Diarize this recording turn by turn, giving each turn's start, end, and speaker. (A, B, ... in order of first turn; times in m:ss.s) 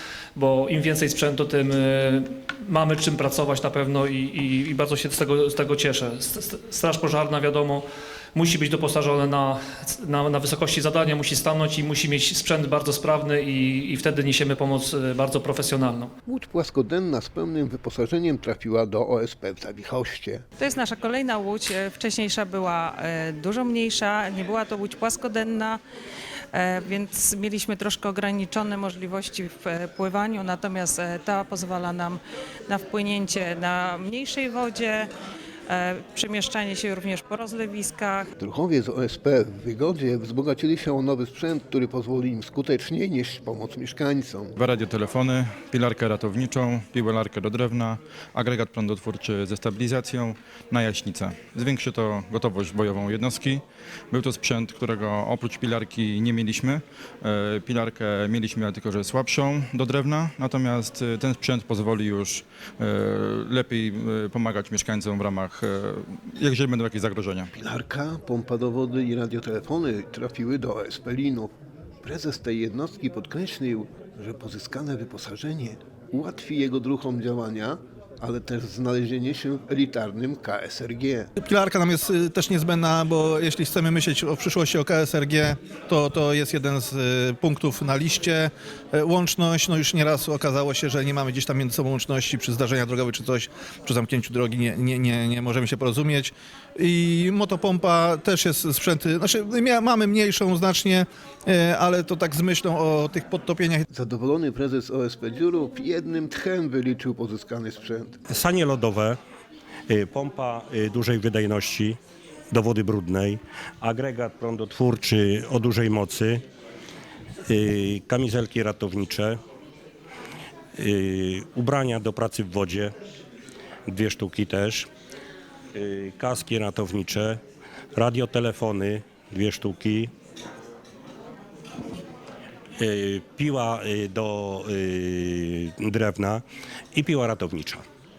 0:00.4-0:16.1 A
0:16.2-0:20.4 B
0:20.6-0:25.8 C
0:26.5-0:35.1 C
0:35.7-0:38.2 C
0:38.4-0:44.5 B
0:44.6-1:07.5 D
1:07.5-1:11.5 B
1:12.0-1:21.3 B
1:21.4-1:43.8 E
1:43.9-1:48.2 B
1:48.3-1:49.2 F
1:49.9-1:52.0 F
1:52.5-1:56.4 F
1:57.5-1:59.4 F
2:00.8-2:02.9 F
2:03.9-2:04.9 F
2:05.7-2:07.4 F
2:07.9-2:10.1 F
2:12.8-2:17.8 F